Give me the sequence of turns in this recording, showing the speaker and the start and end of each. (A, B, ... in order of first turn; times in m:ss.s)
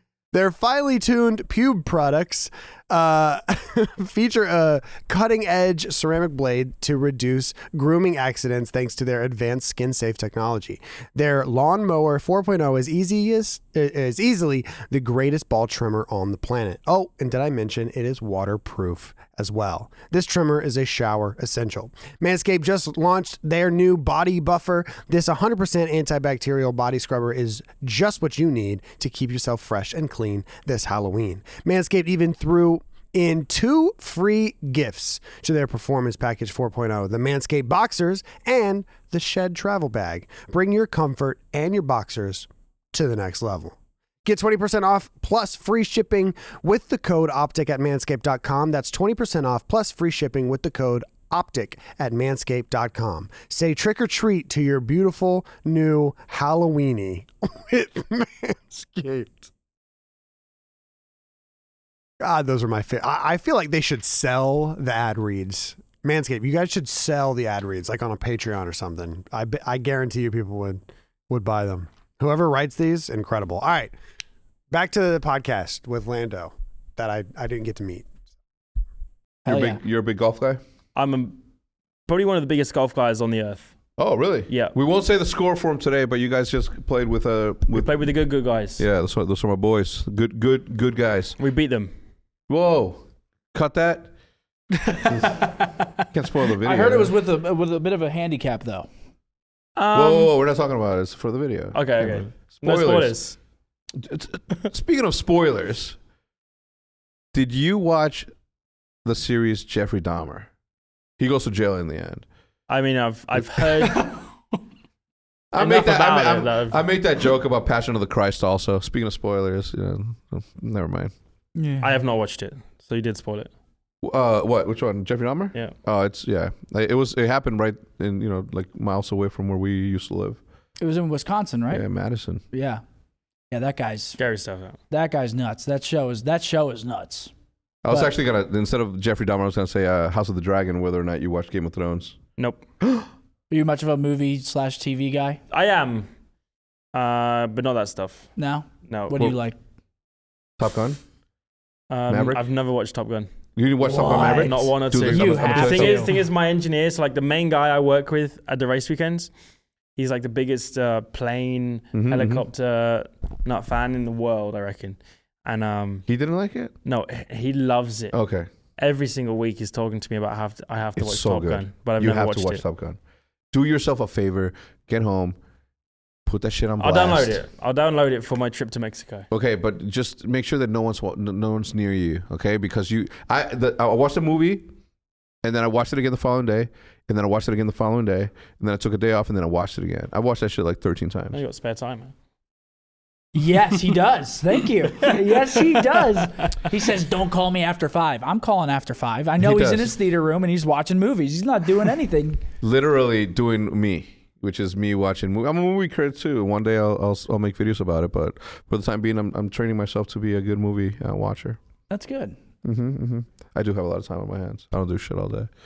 0:00.3-0:59.5 A
1:02.2-1:13.9 A
1:14.7-1:18.1 A
1:19.5-1:19.8 B
1:19.5-1:20.6 C
1:21.0-1:21.4 D
1:22.1-1:23.7 D
1:24.0-1:27.9 C
1:24.5-1:24.8 D
1:27.7-1:28.8 D
1:28.8-1:31.4 C
1:31.4-1:31.9 D
1:32.5-1:33.0 C
1:33.5-1:34.1 C
1:35.0-1:37.1 C
1:36.6-1:38.9 B
1:39.8-1:40.3 D
1:39.9-1:43.2 C
1:41.7-1:43.4 D
1:44.0-1:46.0 C
1:47.3-1:48.3 C
1:49.0-1:50.5 C
1:51.2-1:52.2 C
1:52.7-1:54.1 D
1:55.5-2:01.1 C
1:55.6-1:56.9 D
2:01.6-2:02.0 B
2:01.8-2:03.5 D
2:04.0-2:10.4 C
2:10.8-2:11.8 B
2:11.7-2:12.4 C
2:12.5-2:12.8 B
2:13.5-2:14.2 B
2:14.2-2:14.8 D
2:14.9-2:17.3 B
2:17.8-2:22.2 C
2:22.8-2:23.1 C
2:23.5-2:25.4 B
2:25.5-2:26.1 D
2:26.9-2:28.3 D
2:28.4-2:29.6 B
2:28.8-2:29.3 D
2:30.6-2:31.0 C
2:31.9-2:33.3 D
2:32.1-2:32.4 C
2:33.6-2:36.1 C
2:33.9-2:36.1 B
2:33.9-2:39.3 D
2:40.0-2:46.1 D
2:41.9-2:42.4 C
2:46.1-2:46.7 C
2:46.8-2:48.1 D
2:48.1-2:48.5 C
2:48.8-2:52.6 D
2:51.0-2:53.0 C
2:53.5-2:55.4 C
2:56.3-2:57.4 C
2:56.8-2:59.3 D
2:59.3-3:04.7 C
3:05.4-3:11.4 C
3:11.3-3:12.1 D
3:13.4-3:22.4 B
3:19.4-3:19.9 C
3:22.6-3:31.6 C
3:31.9-3:32.4 B
3:32.6-3:35.5 C